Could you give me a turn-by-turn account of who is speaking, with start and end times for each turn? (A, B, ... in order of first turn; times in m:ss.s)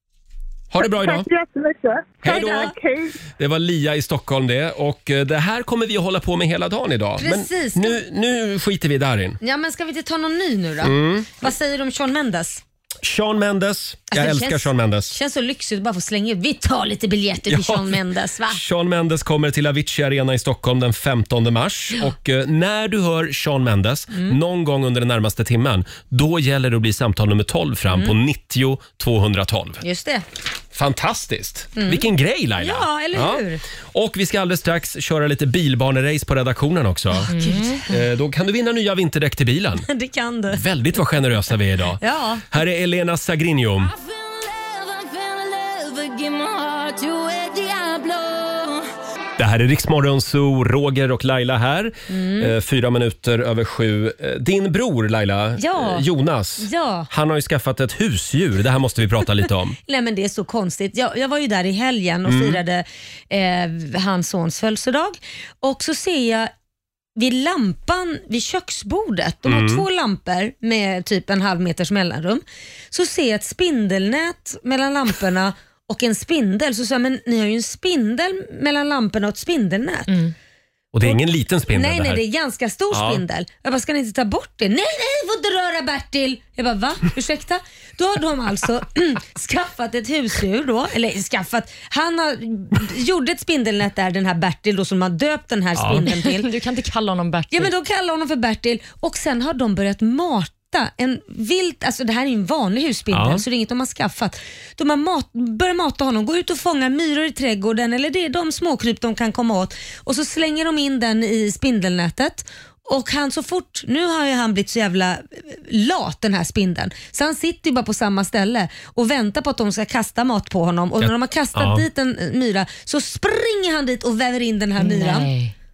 0:00.7-0:01.3 A
0:00.8-0:03.1 B
0:02.2-0:02.7 A
0:02.2-0:02.7 C
0:03.4-0:09.4 A
0:07.2-0:08.0 C
0:09.4-0:12.6 C
0:10.8-0:11.4 A
0:13.0-0:15.1 A
0:14.1-0:18.6 C
0:17.5-0:18.0 A
0:18.5-0:29.8 A
0:24.1-0:24.4 C
0:27.9-0:28.1 C
0:29.8-0:30.2 C
0:30.7-0:33.4 A
0:31.8-0:32.0 C
0:32.6-0:33.6 C
0:33.9-0:37.3 A
0:37.2-0:38.0 C
0:37.3-0:37.8 D
0:37.9-0:39.8 A
0:39.8-0:40.6 C
0:40.5-0:43.9 A
0:42.0-0:42.4 C
0:44.0-0:48.7 C
0:49.4-0:59.8 A
0:52.1-0:52.5 C
0:55.6-0:56.0 C
0:56.6-0:57.1 C
0:59.9-1:06.5 C
1:02.2-1:02.6 A
1:07.2-1:20.1 C
1:09.5-1:09.8 A
1:20.1-1:20.3 D
1:20.9-1:22.2 A
1:21.0-1:36.5 C
1:22.9-1:23.2 A
1:35.8-1:36.0 A
1:36.1-1:37.7 D
1:37.5-2:05.3 C
1:43.1-1:43.4 A
2:01.0-2:01.8 A
2:04.8-2:05.5 D